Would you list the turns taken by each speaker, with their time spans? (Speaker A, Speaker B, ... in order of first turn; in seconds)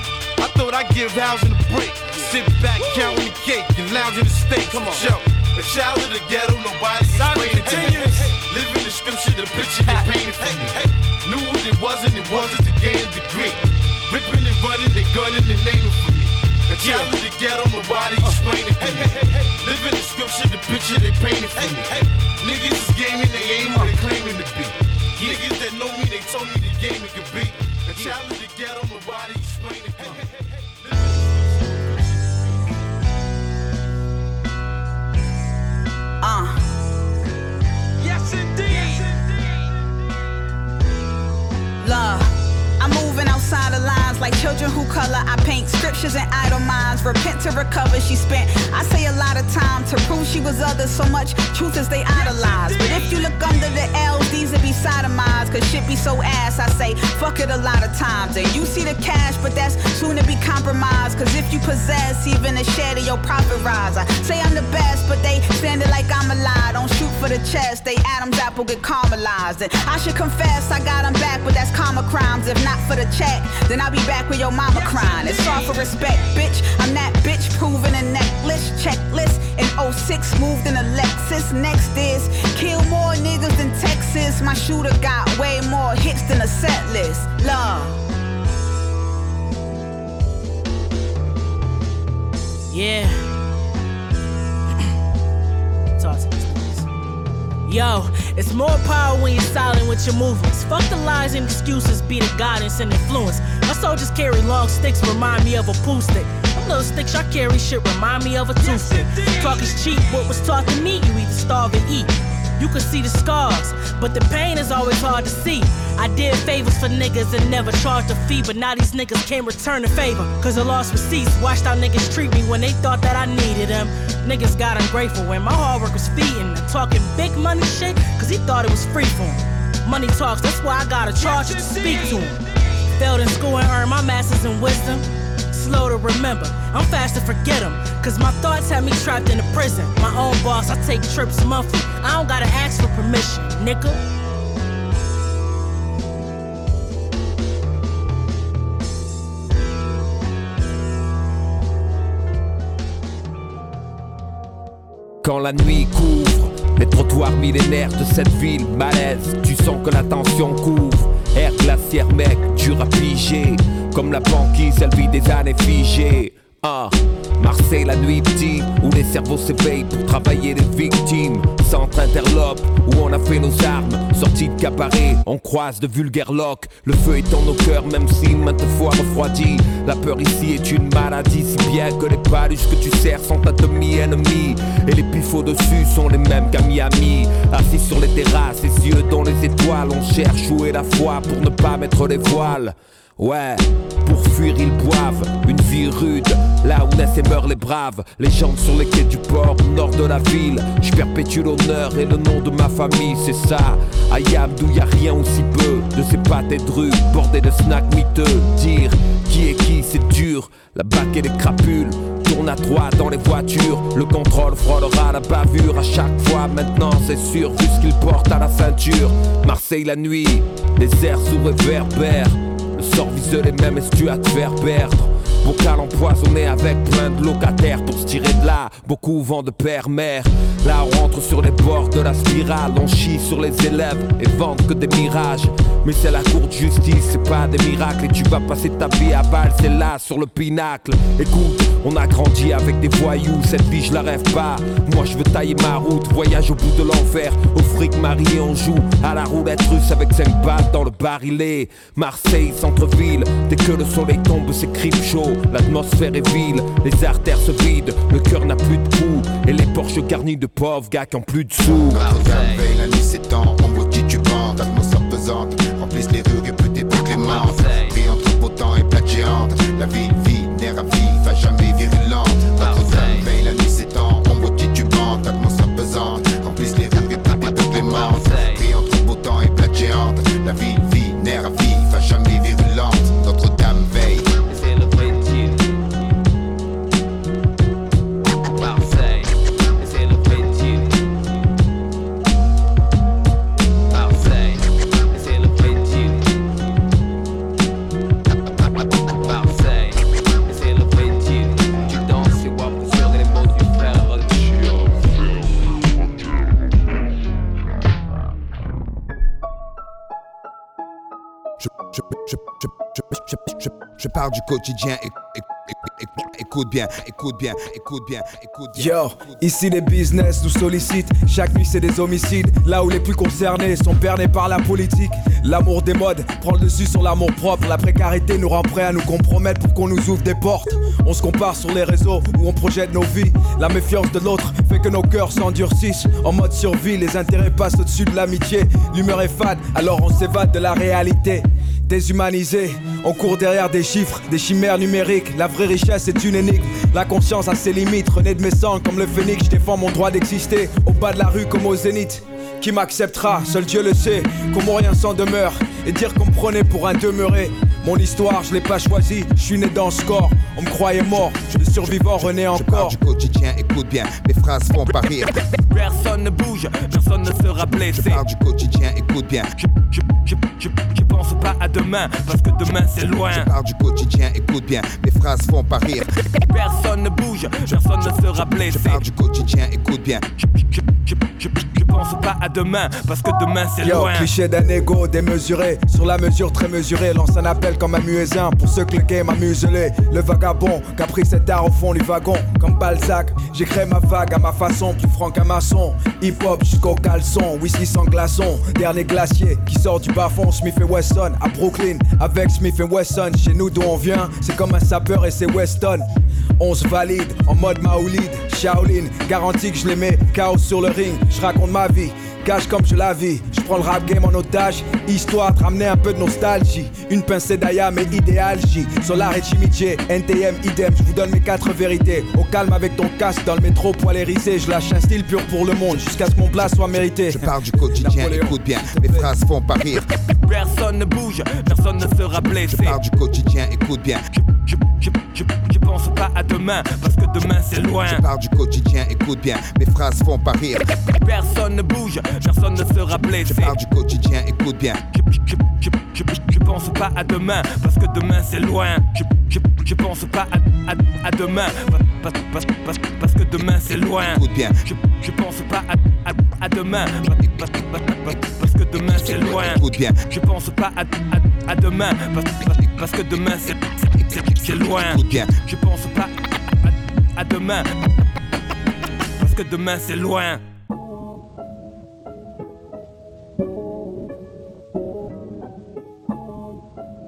Speaker A: 0.4-30.7
Speaker B: 7.1-8.1, 155.2-262.6, 267.3-267.9, 272.6-273.3, 277.8-278.6, 284.5-285.8, 288.6-289.2, 289.8-291.0, 293.9-294.6, 295.1-296.4, 299.3-299.9, 300.5-304.5, 364.9-368.2, 369.6-373.5, 376.4-379.0, 380.4-384.3, 429.9-433.0, 434.3-438.2, 441.2-443.8, 445.1-467.9, 469.4-470.6
Speaker C: 36.2-36.6, 41.8-88.0
Speaker D: 92.7-93.3, 96.0-96.9, 97.7-132.4, 133.0-144.0
Speaker E: 261.7-284.3, 311.6-319.4, 362.4-365.3, 367.9-369.5, 373.0-376.1, 378.7-380.2, 427.3-430.0, 432.7-434.2, 438.0-440.8, 443.4-445.0, 454.4-454.8, 459.0-460.2, 464.9-465.5
Speaker F: 318.7-363.0, 383.8-406.1, 406.6-429.3